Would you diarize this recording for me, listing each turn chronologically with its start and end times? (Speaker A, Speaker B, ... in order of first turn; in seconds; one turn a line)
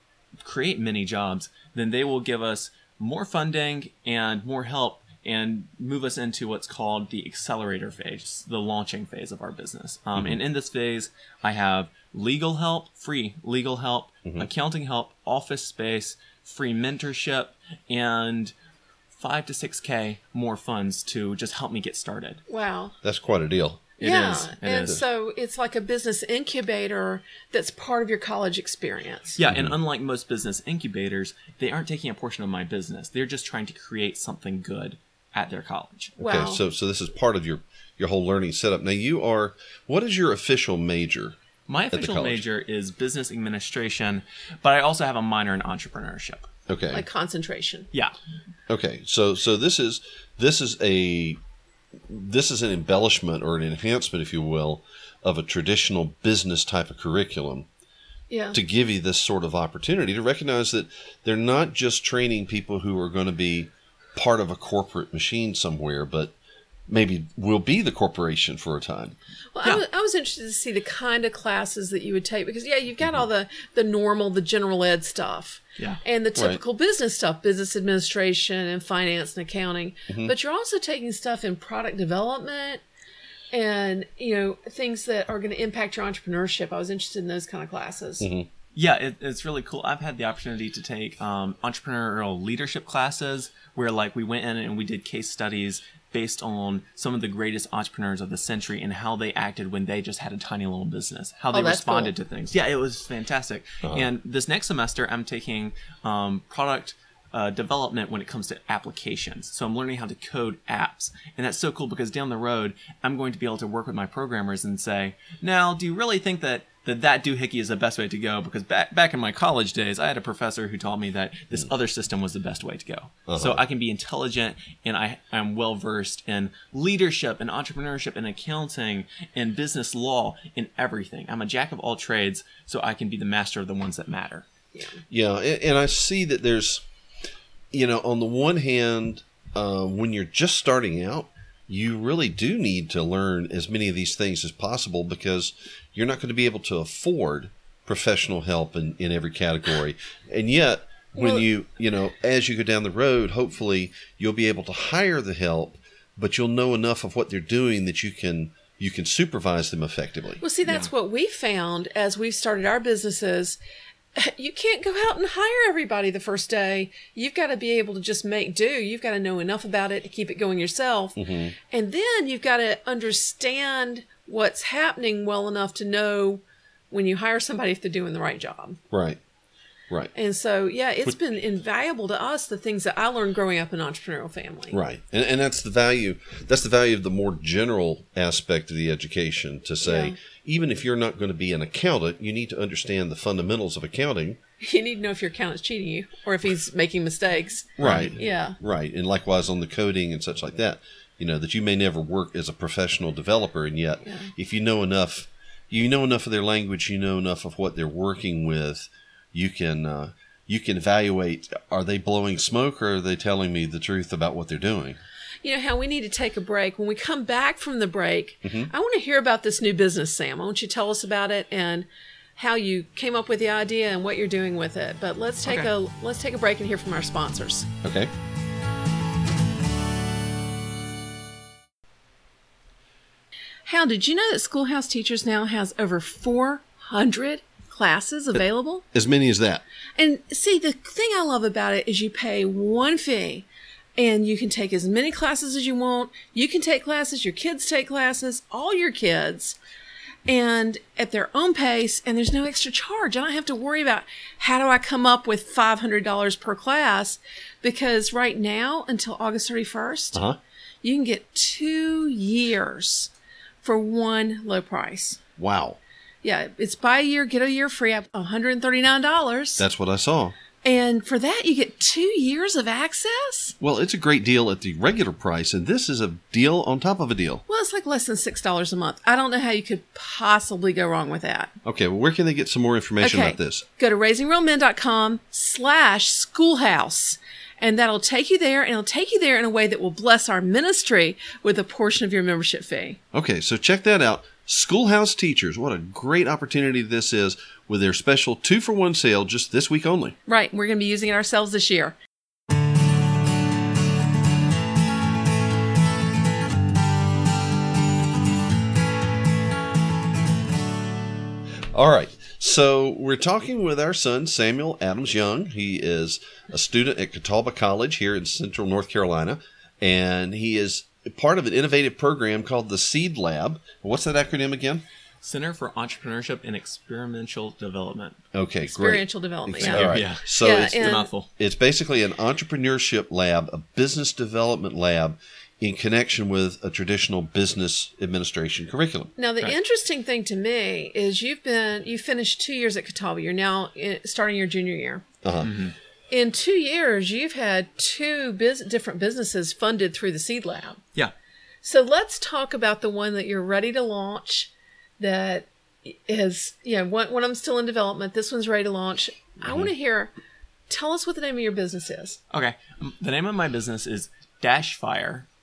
Speaker A: 0.4-18.5
Speaker A: 19.2-22.4
Speaker B: 22.5-23.0
Speaker C: 23.0-23.9
Speaker A: 24.0-25.0
Speaker B: 24.0-29.4
Speaker A: 29.4-36.1
Speaker B: 36.2-36.6
Speaker C: 36.2-41.4
Speaker A: 41.7-46.5
Speaker C: 41.9-42.4
Speaker C: 46.7-47.0
Speaker B: 46.9-47.9
Speaker C: 48.7-51.4
Speaker C: 52.1-57.7
Speaker B: 58.3-58.6
Speaker C: 58.5-66.3
Speaker C: 66.9-69.2
Speaker B: 69.5-82.8
Speaker C: 80.1-80.3
Speaker B: 83.5-88.3
Speaker C: 88.2-88.5
Speaker A: 88.8-134.5
Speaker B: 101.5-102.1
Speaker C: 123.3-123.6
Speaker B: 134.7-135.0
Speaker C: 135.1-136.8
Speaker C: 137.7-160.4
Speaker B: 151.1-151.5
Speaker B: 160.4-163.6
Speaker B: 164.1-178.8
Speaker C: 171.2-171.5
Speaker C: 178.9-179.2
Speaker B: 180.1-184.8
Speaker C: 184.7-194.4
Speaker B: 189.8-190.2
Speaker B: 194.6-198.6
Speaker C: 197.8-215.0
Speaker A: 197.8-198.1
Speaker B: 204.0-204.3
Speaker B: 215.4-227.7
Speaker C: 218.4-218.7
Speaker A: 225.5-225.7
Speaker C: 227.8-228.1
Speaker B: 233.7-238.9
Speaker C: 238.9-239.6
Speaker B: 240.0-243.5
Speaker B: 244.0-249.6
Speaker B: 250.2-260.2
Speaker B: 260.8-263.1
Speaker B: 263.6-265.2
Speaker C: 265.4-265.8
Speaker B: 266.2-269.6
Speaker C: 269.6-270.4
Speaker B: 270.6-273.5
Speaker C: 273.6-277.4
Speaker B: 277.5-281.5
Speaker C: 281.6-283.6
Speaker B: 283.0-293.0
Speaker C: 293.1-300.2
Speaker B: 300.3-302.0
Speaker C: 311.7-324.8
Speaker A: 325.2-328.2
Speaker C: 328.3-339.1
Speaker B: 328.7-331.1
Speaker A: 329.5-331.3
Speaker B: 339.2-345.0
Speaker C: 345.2-345.5
Speaker A: 345.4-345.8
Speaker B: 346.1-350.8
Speaker B: 351.6-360.1
Speaker B: 360.7-362.2
Speaker A: 362.3-365.3